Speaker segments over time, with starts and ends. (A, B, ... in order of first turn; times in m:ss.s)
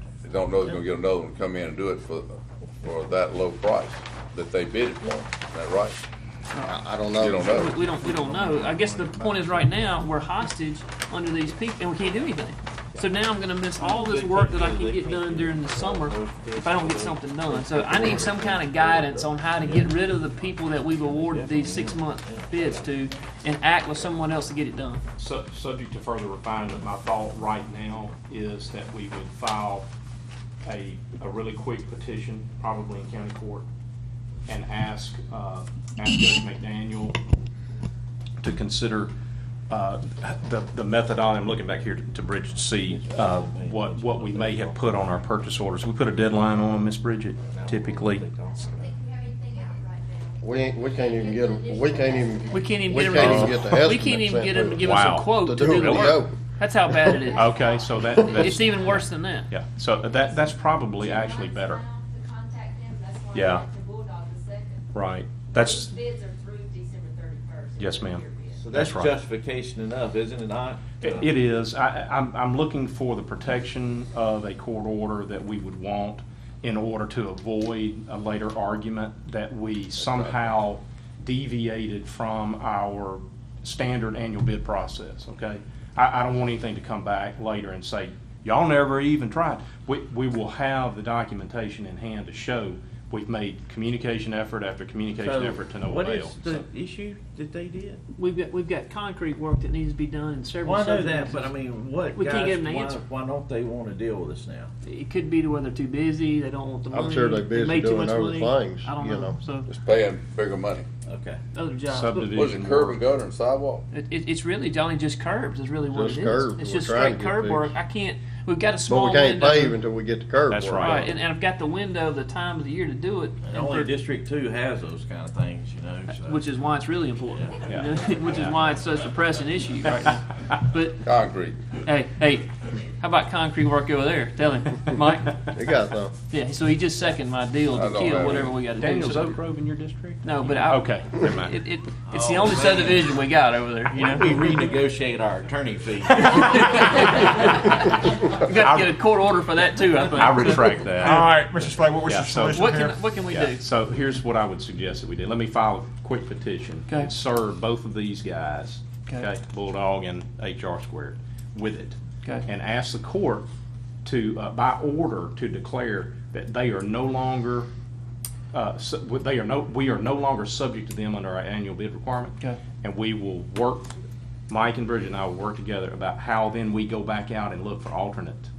0:00.2-0:06.0 A
0:06.5-0:25.0 B
0:06.6-0:07.6 C
0:07.2-0:07.8 A
0:07.7-0:09.9 D
0:13.8-0:22.9 D
0:25.2-0:29.9 E
0:30.6-0:33.6 E
0:34.5-0:37.2 E
0:38.4-0:39.1 E
0:39.7-0:48.2 E
0:42.7-0:45.2 D
0:47.5-0:48.9 D
0:48.6-0:53.2 F
0:50.4-0:56.4 C
0:52.5-0:57.6 B
0:53.1-0:53.7 E
0:54.8-0:56.2 E
0:57.2-0:58.0 F
0:57.3-1:01.8 E
0:58.1-0:58.5 C
0:58.2-0:59.5 B
1:00.0-1:04.9 F
1:03.3-1:03.6 E
1:04.9-1:06.0 E
1:05.5-1:08.7 F
1:07.8-1:09.2 E
1:08.6-1:11.3 D
1:11.0-1:36.6 E
1:35.1-1:38.0 D
1:38.2-1:41.5 B
1:40.6-1:44.7 D
1:42.1-1:43.0 B
1:44.8-1:49.7 B
1:46.9-1:49.4 C
1:49.7-1:50.9 A
1:51.1-1:51.4 D
1:51.5-1:52.3 B
1:51.9-1:53.0 E
1:52.3-1:53.8 A
1:53.9-1:59.8 B
1:55.9-1:57.7 C
1:58.9-2:01.1 C
2:00.5-2:01.1 E
2:00.8-2:04.0 B
2:03.4-2:06.4 D
2:06.1-2:11.0 B
2:07.7-2:08.5 E
2:11.0-2:11.6 A
2:11.8-2:15.4 B
2:15.5-2:16.1 C
2:16.3-2:19.4 B
2:17.7-2:18.5 A
2:18.8-2:21.6 E
2:20.2-2:24.4 B
2:22.1-2:23.1 D
2:23.9-2:27.3 D
2:26.1-2:30.6 B
2:28.5-2:29.0 E
2:30.1-2:31.4 E
2:31.0-2:33.1 G
2:32.0-2:43.4 E
2:32.5-2:33.6 B
2:44.0-2:47.7 E
2:48.5-2:53.9 E
2:54.5-2:58.5 E